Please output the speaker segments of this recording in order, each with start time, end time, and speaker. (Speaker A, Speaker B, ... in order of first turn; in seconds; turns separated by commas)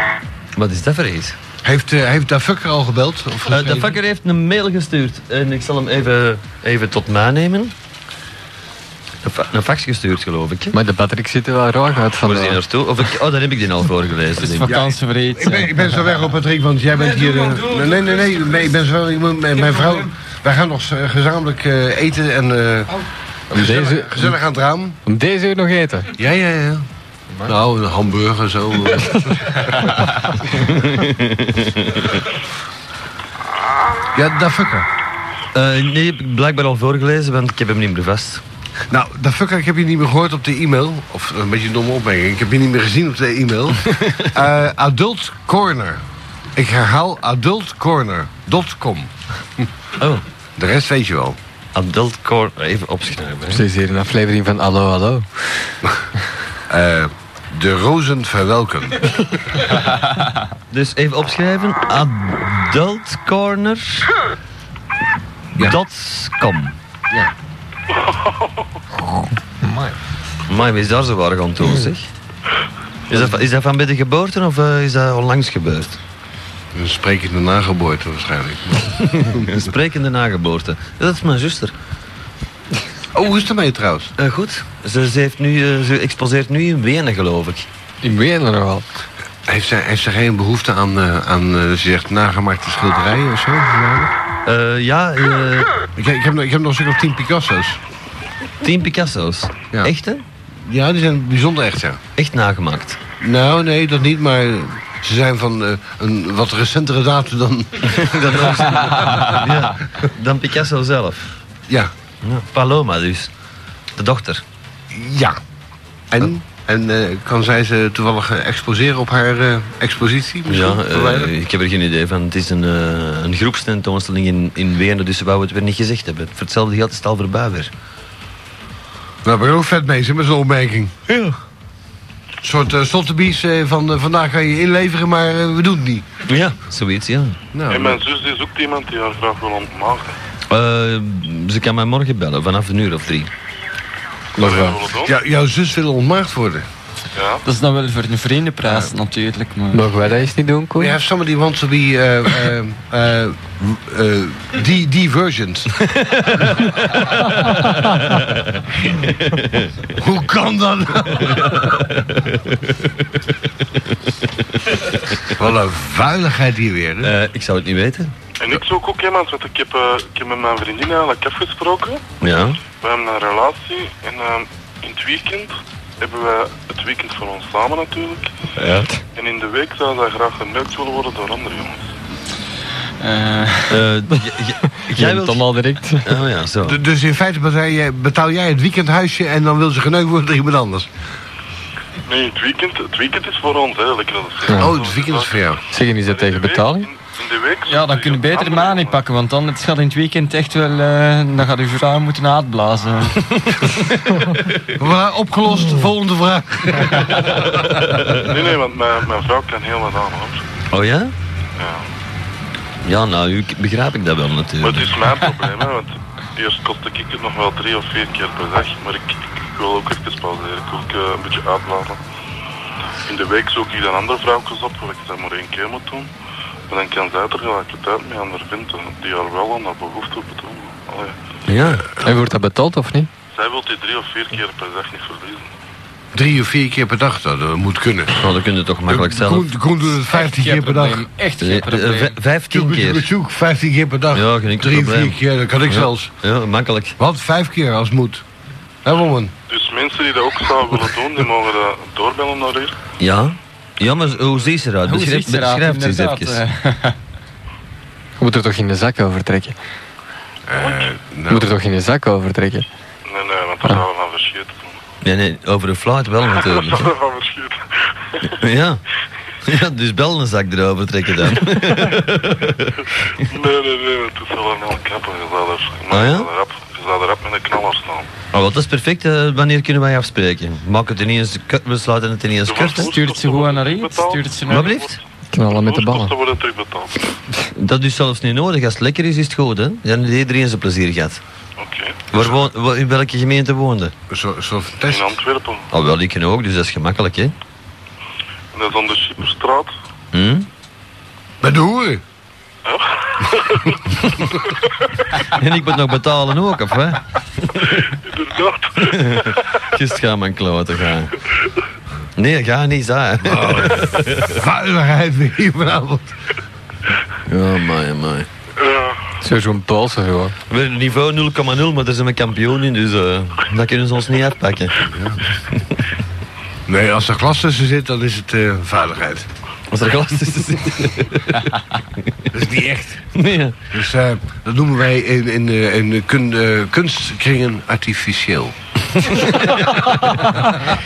Speaker A: 0.6-1.4, Speaker B: 1.6-4.0, Speaker A: 3.5-7.7, Speaker A: 9.2-10.7, Speaker C: 10.7-12.6, Speaker A: 12.2-14.8, Speaker D: 14.4-16.0, Speaker B: 14.6-22.9, Speaker D: 17.3-18.0, Speaker C: 23.5-24.3, Speaker B: 23.5-25.0, Speaker C: 25.1-26.1, Speaker B: 26.1-26.8, Speaker B: 27.4-29.8, Speaker A: 30.6-32.2, Speaker B: 34.1-34.9, Speaker A: 35.5-38.4, Speaker B: 38.9-46.0, Speaker A: 43.9-44.3, Speaker B: 46.6-49.7, Speaker A: 50.0-50.2, Speaker B: 50.6-51.4, Speaker A: 51.8-53.6, Speaker C: 53.5-55.8, Speaker B: 56.7-59.1, Speaker A: 60.7-64.1, Speaker A: 65.6-66.8, Speaker A: 70.5-72.1, Speaker A: 73.1-76.0, Speaker B: 76.7-79.7, Speaker A: 79.1-81.7, Speaker B: 83.1-84.1, Speaker A: 84.2-87.6, Speaker C: 88.0-88.9, Speaker B: 89.5-94.1, Speaker A: 94.5-95.7, Speaker B: 96.0-97.8, Speaker A: 98.6-100.2, Speaker B: 100.6-102.0, Speaker A: 102.2-103.0, Speaker B: 103.2-109.7, Speaker A: 107.9-111.3, Speaker A: 112.2-113.3, Speaker A: 114.0-114.4, Speaker B: 114.9-115.4, Speaker B: 116.1-121.3, Speaker A: 120.5-127.7, Speaker B: 129.2-130.9, Speaker A: 131.1-131.4, Speaker B: 132.4-136.1, Speaker A: 136.2-137.4, Speaker B: 137.5-138.0, Speaker E: 137.7-140.2, Speaker A: 140.5-143.3, Speaker E: 144.4-145.1, Speaker C: 144.4-144.8, Speaker B: 145.0-146.7, Speaker E: 147.1-147.4, Speaker D: 147.4-149.9, Speaker B: 148.6-148.9, Speaker C: 149.7-151.0, Speaker B: 150.8-155.9, Speaker A: 155.9-159.9, Speaker B: 159.9-161.9, Speaker A: 161.2-162.9, Speaker A: 164.6-165.2, Speaker B: 165.3-167.1, Speaker A: 167.0-168.1, Speaker E: 168.4-172.0, Speaker A: 172.2-172.6, Speaker E: 172.8-178.3, Speaker C: 178.6-178.9, Speaker E: 179.1-181.9, Speaker D: 183.0-183.8, Speaker A: 183.7-186.8, Speaker C: 184.8-186.1, Speaker B: 186.6-190.9, Speaker E: 192.1-199.0, Speaker C: 194.4-194.8, Speaker B: 194.6-195.6, Speaker C: 195.7-196.9, Speaker D: 197.7-203.3, Speaker B: 204.8-207.5, Speaker E: 208.1-210.4, Speaker A: 210.7-211.1, Speaker E: 211.6-211.8, Speaker A: 212.8-215.0, Speaker E: 214.6-222.0, Speaker E: 223.1-226.1, Speaker E: 226.7-231.2, Speaker A: 231.5-231.9, Speaker C: 232.0-233.1, Speaker E: 233.3-235.5, Speaker B: 236.1-238.4, Speaker A: 238.2-239.5, Speaker B: 238.9-241.1, Speaker D: 240.1-242.2, Speaker A: 241.4-243.1, Speaker B: 242.5-246.1, Speaker A: 244.1-247.0, Speaker B: 247.0-248.2, Speaker B: 248.8-249.3, Speaker E: 249.5-252.8, Speaker A: 253.0-256.4, Speaker D: 254.8-257.0, Speaker C: 258.2-259.6, Speaker B: 260.4-261.5, Speaker C: 261.3-262.6, Speaker E: 263.1-264.8, Speaker A: 265.0-266.9, Speaker E: 266.3-268.3, Speaker A: 268.3-268.8, Speaker A: 269.4-273.2, Speaker E: 273.3-278.1, Speaker A: 275.9-276.3, Speaker A: 278.3-282.9, Speaker E: 282.4-287.1, Speaker D: 282.8-284.7, Speaker A: 284.5-285.0, Speaker C: 285.3-286.1, Speaker A: 287.6-291.2, Speaker E: 291.6-292.2, Speaker A: 292.1-293.9, Speaker B: 294.1-295.1, Speaker E: 294.9-295.6, Speaker A: 295.7-297.3, Speaker E: 298.5-299.7, Speaker A: 300.1-300.5, Speaker B: 301.4-302.0, Speaker E: 302.6-303.8, Speaker A: 305.2-307.7, Speaker E: 307.8-309.4, Speaker A: 308.8-311.1, Speaker A: 312.2-314.4, Speaker B: 313.2-316.1, Speaker A: 317.3-318.3, Speaker E: 318.6-319.0, Speaker C: 319.2-320.4, Speaker A: 320.5-324.8, Speaker B: 324.8-325.2, Speaker B: 326.7-329.3, Speaker A: 329.7-332.1, Speaker B: 332.3-333.1, Speaker A: 333.1-333.6, Speaker B: 333.7-338.5, Speaker A: 339.0-339.8